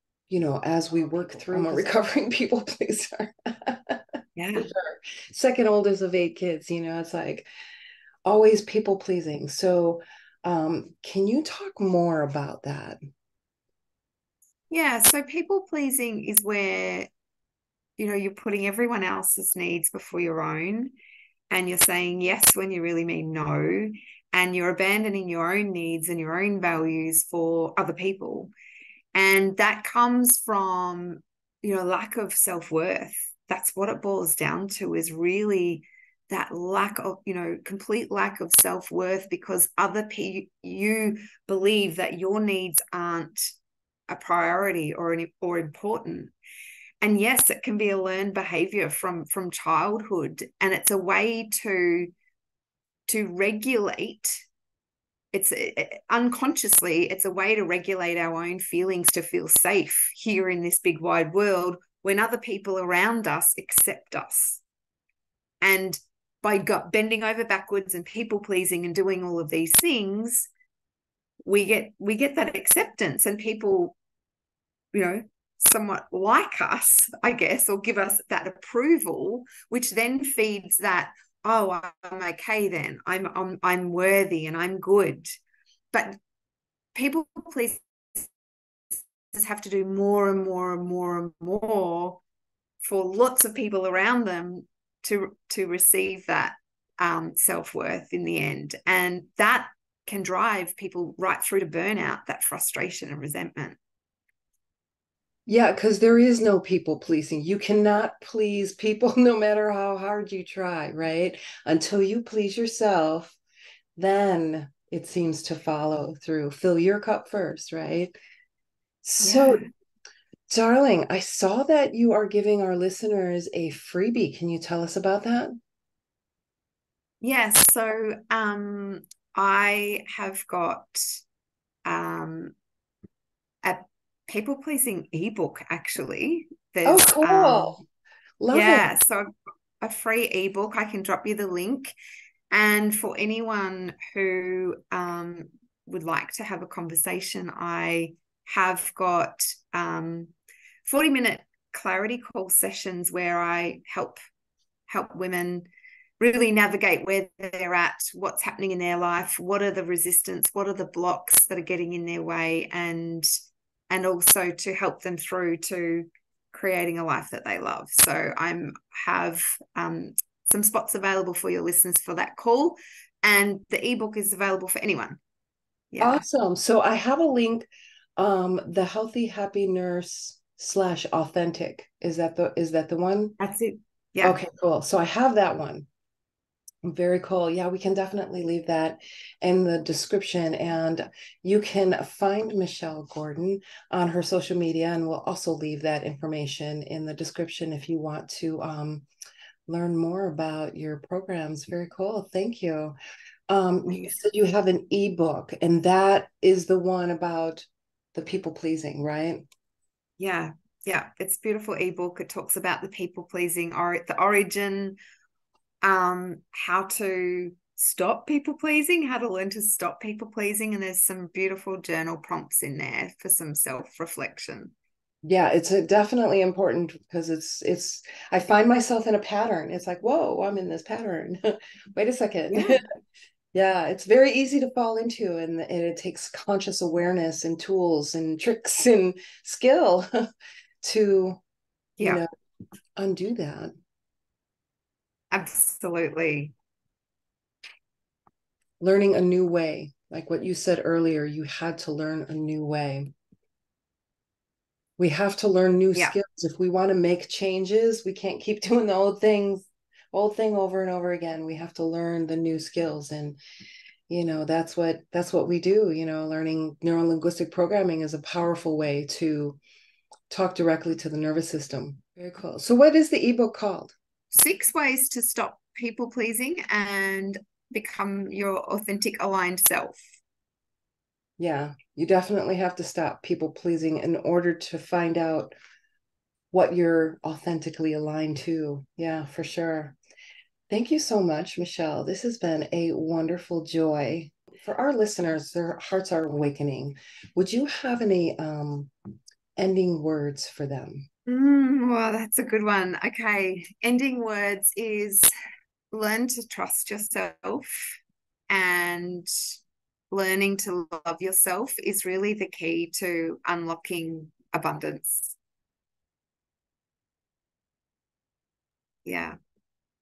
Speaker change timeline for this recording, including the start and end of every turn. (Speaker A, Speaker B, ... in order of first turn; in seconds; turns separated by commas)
Speaker A: 0.3-4.0, Speaker B: 4.3-4.7, Speaker A: 4.5-7.5, Speaker A: 8.2-13.0, Speaker B: 14.7-17.1, Speaker B: 18.0-20.9, Speaker B: 21.5-28.5, Speaker B: 29.1-43.5, Speaker B: 44.1-46.3, Speaker B: 47.0-52.1, Speaker B: 53.1-54.4, Speaker B: 55.3-64.6, Speaker B: 65.6-70.5, Speaker B: 71.4-74.0, Speaker B: 74.9-85.3, Speaker B: 85.9-86.2, Speaker B: 86.9-88.3, Speaker B: 88.9-92.2, Speaker B: 92.8-103.8, Speaker A: 105.5-113.4, Speaker A: 114.0-118.1, Speaker A: 119.0-119.6, Speaker B: 119.2-119.7, Speaker A: 120.5-125.6, Speaker B: 127.2-131.2, Speaker B: 131.8-132.5, Speaker B: 133.6-137.8, Speaker A: 136.8-137.8, Speaker A: 138.4-138.8, Speaker B: 138.5-141.9, Speaker B: 142.5-150.3, Speaker B: 150.8-154.2, Speaker B: 154.9-155.7, Speaker B: 156.2-163.3, Speaker B: 163.9-175.2, Speaker B: 175.9-176.2, Speaker A: 176.0-177.7, Speaker A: 178.2-183.3, Speaker B: 183.4-184.4, Speaker A: 184.2-185.9, Speaker A: 186.8-199.1, Speaker A: 199.7-202.9, Speaker A: 203.5-209.4, Speaker B: 203.9-204.1, Speaker B: 210.2-215.0, Speaker B: 215.8-224.7, Speaker A: 225.2-232.8, Speaker B: 232.5-232.8, Speaker A: 233.5-240.1, Speaker A: 240.8-241.4, Speaker A: 242.0-242.2, Speaker A: 243.0-243.7, Speaker B: 245.3-246.5, Speaker A: 248.8-253.1, Speaker A: 255.0-263.4, Speaker A: 264.1-269.6, Speaker A: 270.3-273.9, Speaker B: 274.3-280.0, Speaker A: 281.4-285.5, Speaker A: 286.5-289.9, Speaker A: 290.7-298.9, Speaker A: 299.6-301.1, Speaker B: 301.3-305.3, Speaker B: 305.9-308.0, Speaker B: 308.5-309.3, Speaker B: 310.1-315.4, Speaker B: 319.0-319.4